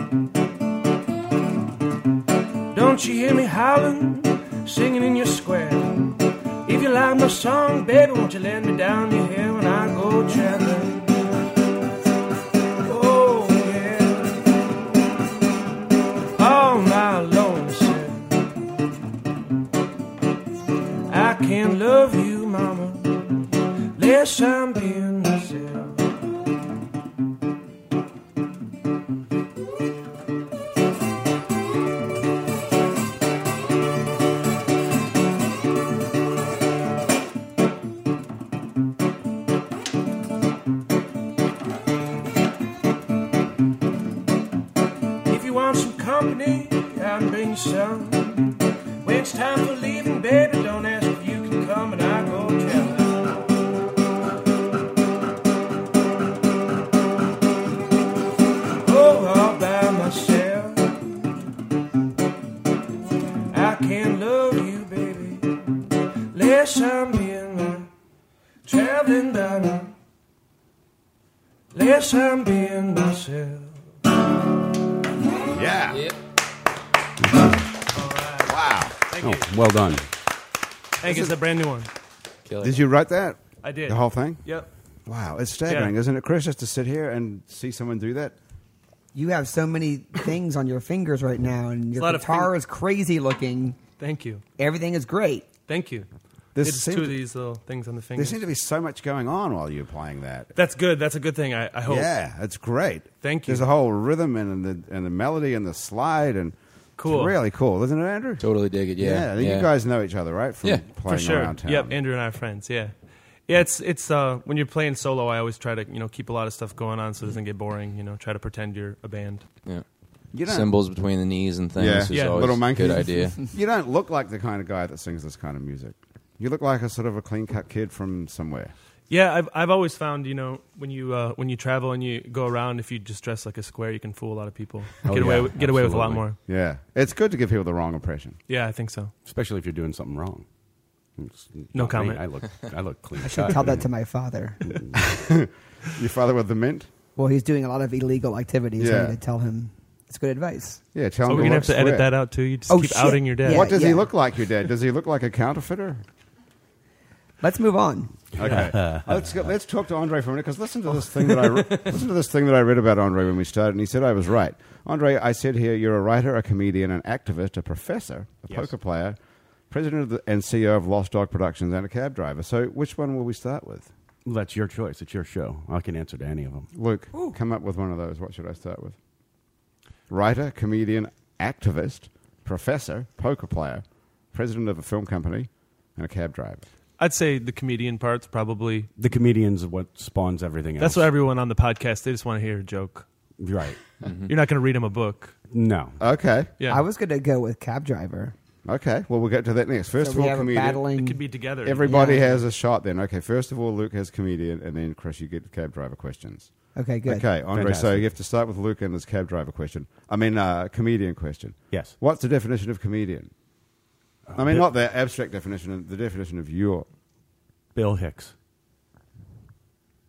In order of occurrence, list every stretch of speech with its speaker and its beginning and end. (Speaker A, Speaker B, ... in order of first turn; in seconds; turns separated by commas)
Speaker A: 2.7-11.1, Speaker A: 12.9-14.5, Speaker A: 16.4-18.4, Speaker A: 21.1-26.0, Speaker A: 45.3-53.2, Speaker A: 58.8-61.0, Speaker A: 63.5-65.6, Speaker A: 66.3-67.9, Speaker A: 68.7-69.9, Speaker A: 71.7-73.8, Speaker B: 75.5-76.0, Speaker C: 77.9-79.5, Speaker B: 78.5-79.0, Speaker D: 79.2-80.1, Speaker C: 81.0-81.9, Speaker B: 81.0-81.3, Speaker E: 82.5-82.8, Speaker B: 82.6-84.4, Speaker C: 83.6-84.7, Speaker B: 85.1-88.3, Speaker C: 85.7-86.0, Speaker F: 89.1-93.8, Speaker C: 92.0-92.5, Speaker C: 94.0-94.4, Speaker F: 94.6-95.5, Speaker C: 95.7-96.1, Speaker B: 96.5-97.2, Speaker C: 96.6-98.4, Speaker B: 98.2-100.5, Speaker C: 100.5-102.1, Speaker B: 101.9-112.0, Speaker C: 103.2-103.7, Speaker C: 107.0-107.4, Speaker E: 108.4-109.7, Speaker C: 111.1-112.9, Speaker C: 113.5-119.5, Speaker B: 120.3-120.7, Speaker E: 120.5-123.4, Speaker B: 121.8-128.7, Speaker C: 122.1-122.5, Speaker C: 129.1-136.4, Speaker D: 135.1-136.3, Speaker B: 136.5-138.4, Speaker C: 138.5-139.1, Speaker D: 139.3-140.4, Speaker D: 141.2-143.9, Speaker C: 141.7-142.7, Speaker F: 143.2-144.6, Speaker D: 144.6-145.0, Speaker B: 144.9-146.9, Speaker F: 147.2-150.8, Speaker B: 148.8-149.2, Speaker B: 150.9-152.1, Speaker C: 151.3-153.7, Speaker F: 152.7-154.1, Speaker B: 153.5-156.0, Speaker F: 157.4-158.2, Speaker D: 158.3-159.2, Speaker B: 158.4-169.2, Speaker B: 169.7-173.9, Speaker D: 174.3-176.7, Speaker B: 176.8-179.0, Speaker B: 180.1-186.6, Speaker C: 187.0-188.9, Speaker D: 189.0-191.1, Speaker C: 190.8-193.1, Speaker D: 193.4-193.8, Speaker E: 194.0-194.3, Speaker C: 194.3-195.4, Speaker D: 195.5-196.0, Speaker B: 196.0-196.5, Speaker F: 196.7-198.3, Speaker B: 198.7-200.8, Speaker F: 200.0-201.2, Speaker C: 200.9-202.3, Speaker B: 201.6-206.5, Speaker F: 201.9-202.3, Speaker F: 206.8-207.2, Speaker B: 207.1-213.3, Speaker D: 207.5-208.1, Speaker D: 214.3-214.7, Speaker B: 214.3-216.9, Speaker D: 217.8-218.3